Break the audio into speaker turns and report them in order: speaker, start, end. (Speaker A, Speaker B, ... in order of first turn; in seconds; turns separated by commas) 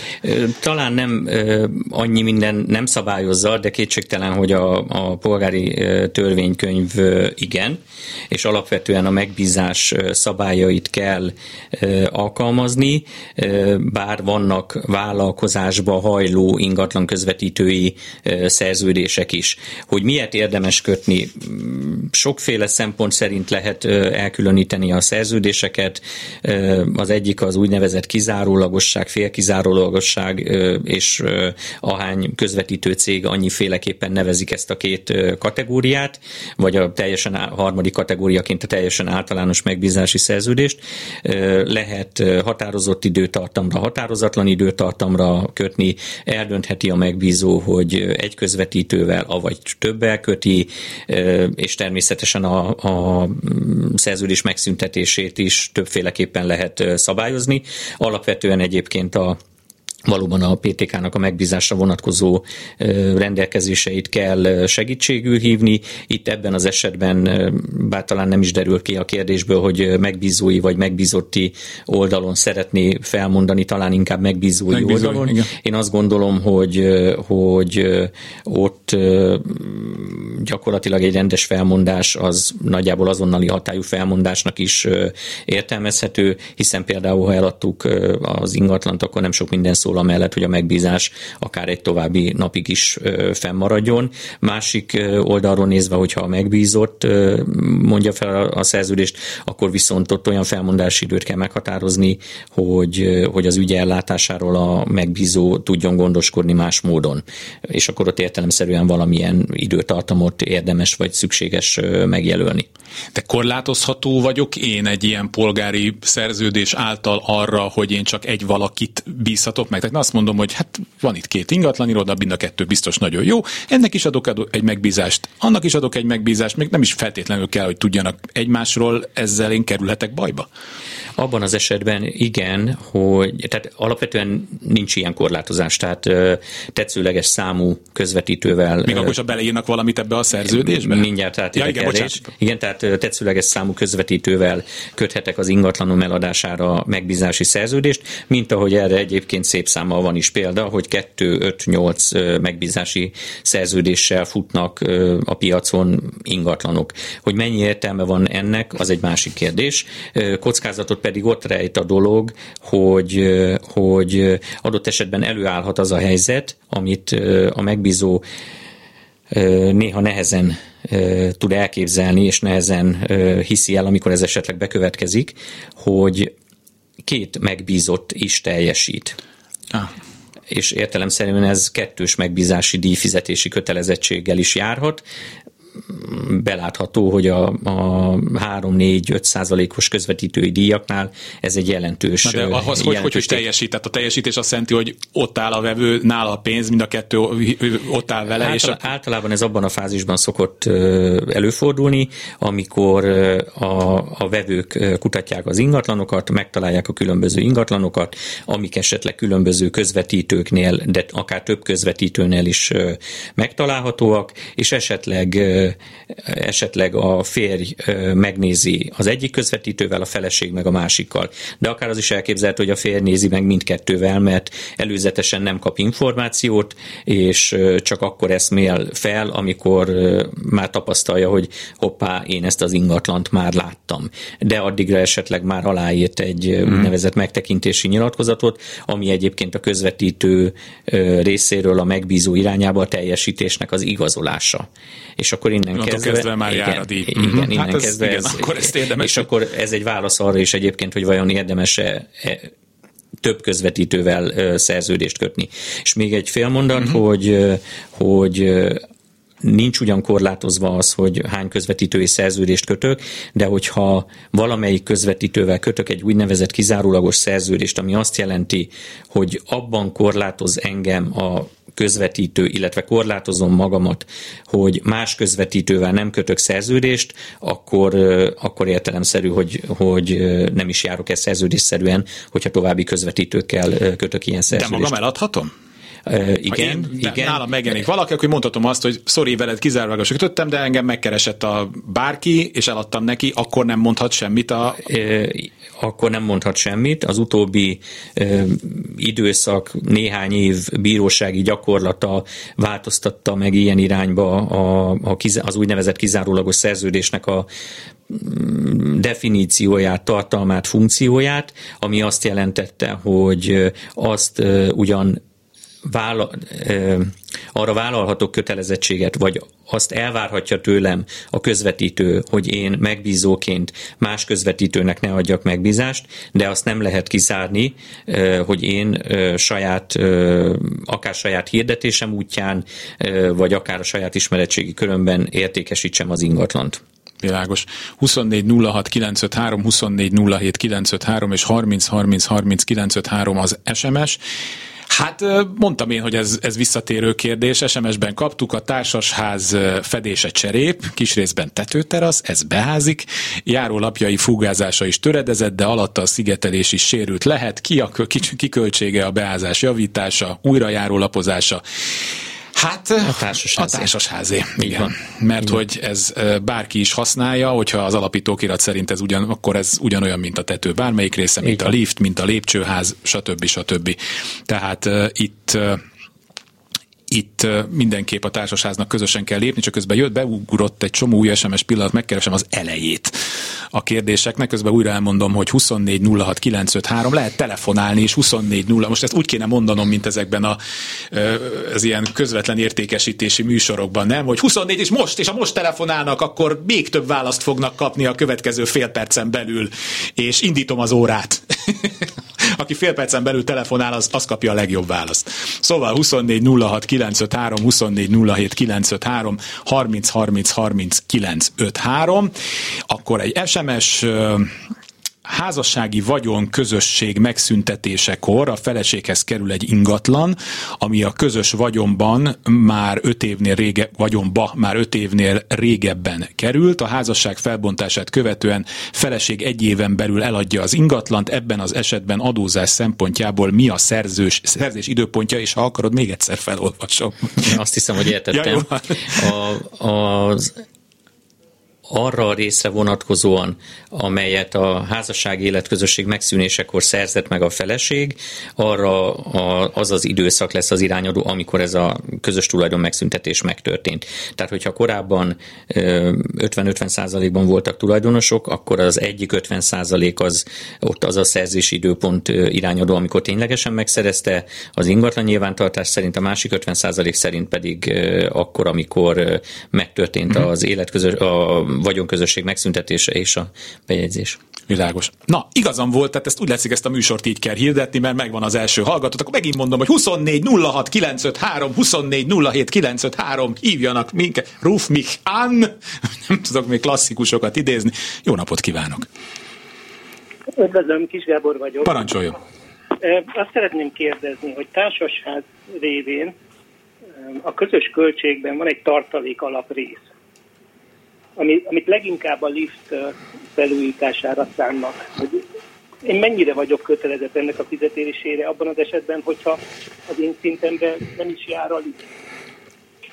Speaker A: 0.2-59.4, Speaker A: 60.1-112.7, Speaker B: 74.7-75.5, Speaker B: 113.1-130.5, Speaker A: 131.2-139.2, Speaker B: 138.8-142.3, Speaker A: 140.4-168.2, Speaker A: 169.3-176.3, Speaker A: 177.0-179.2, Speaker A: 180.5-185.0, Speaker A: 185.9-193.4, Speaker B: 192.2-198.8, Speaker A: 198.4-244.7, Speaker A: 245.2-252.5, Speaker B: 245.7-249.3, Speaker A: 253.2-258.8, Speaker A: 259.4-284.9, Speaker B: 284.5-285.5, Speaker A: 286.1-287.4, Speaker B: 286.5-294.8, Speaker A: 294.8-307.5, Speaker A: 308.1-315.2, Speaker A: 315.9-336.8, Speaker B: 337.2-344.2, Speaker B: 344.9-361.6, Speaker B: 362.5-375.8, Speaker A: 363.0-363.9, Speaker A: 364.6-364.9, Speaker B: 377.1-383.2, Speaker B: 383.7-390.6, Speaker B: 391.1-412.3, Speaker B: 412.9-414.6, Speaker B: 415.2-437.6, Speaker A: 437.4-440.6, Speaker B: 438.3-439.3, Speaker A: 441.9-474.4, Speaker B: 474.7-489.1, Speaker C: 490.6-492.0, Speaker B: 491.8-492.4, Speaker C: 493.0-496.4, Speaker C: 497.2-500.1, Speaker C: 501.4-505.4, Speaker C: 506.0-512.1